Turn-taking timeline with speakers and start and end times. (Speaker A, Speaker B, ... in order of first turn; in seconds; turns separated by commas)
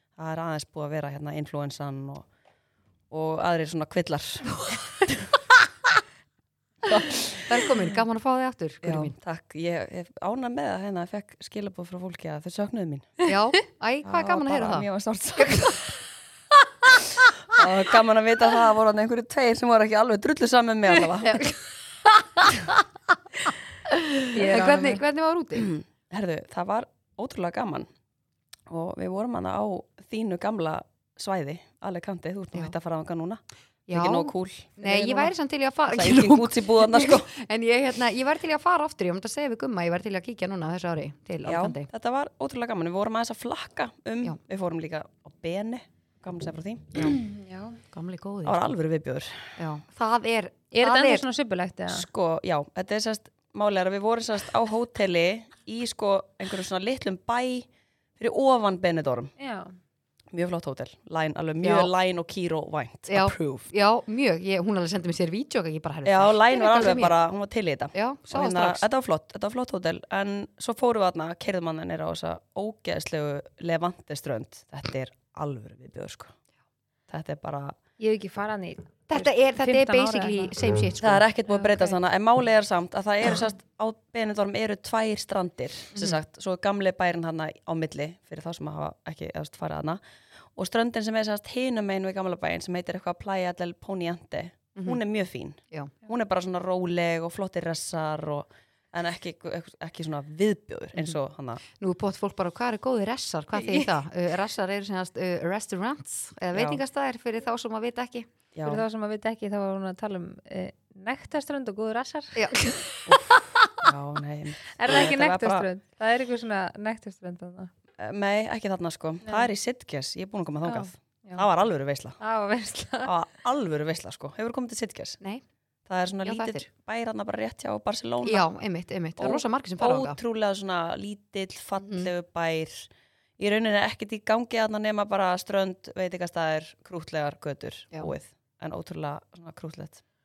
Speaker A: 0.1-2.3, Speaker A: 3.1-5.2, Speaker A: 6.8-8.0, Speaker B: 7.4-9.1, Speaker A: 8.8-13.2, Speaker B: 13.2-14.8, Speaker A: 14.0-15.9, Speaker B: 15.4-15.7, Speaker A: 17.5-21.5, Speaker B: 21.0-22.8, Speaker B: 24.2-25.7, Speaker A: 24.3-25.0, Speaker C: 24.5-24.9, Speaker A: 25.5-27.9, Speaker A: 28.7-33.4, Speaker B: 33.9-41.9, Speaker A: 33.9-35.3, Speaker A: 35.9-37.3, Speaker A: 41.4-47.1, Speaker B: 46.9-47.2, Speaker C: 47.0-47.8, Speaker B: 47.9-48.7, Speaker A: 48.4-49.6, Speaker B: 49.6-51.2, Speaker C: 50.7-52.1, Speaker A: 51.9-57.7, Speaker A: 58.2-59.3, Speaker C: 59.4-59.7, Speaker A: 60.3-63.7, Speaker B: 61.6-61.9, Speaker B: 63.1-67.2, Speaker A: 66.0-76.3, Speaker B: 67.9-68.8, Speaker A: 77.1-77.8, Speaker C: 78.0-80.5, Speaker B: 79.1-81.2, Speaker A: 81.0-90.0, Speaker C: 81.5-82.0, Speaker B: 85.9-86.2, Speaker A: 90.5-101.6, Speaker B: 94.8-95.0, Speaker B: 101.7-108.3, Speaker A: 106.5-106.8, Speaker A: 108.5-108.8, Speaker C: 108.6-112.7, Speaker B: 112.3-112.7, Speaker A: 113.1-115.7, Speaker C: 114.7-117.7, Speaker A: 118.0-122.2, Speaker C: 120.6-121.5, Speaker C: 122.2-123.1, Speaker A: 123.0-125.2, Speaker A: 125.9-128.5, Speaker B: 126.2-126.7, Speaker B: 128.2-130.2, Speaker A: 129.2-140.0, Speaker B: 131.8-132.1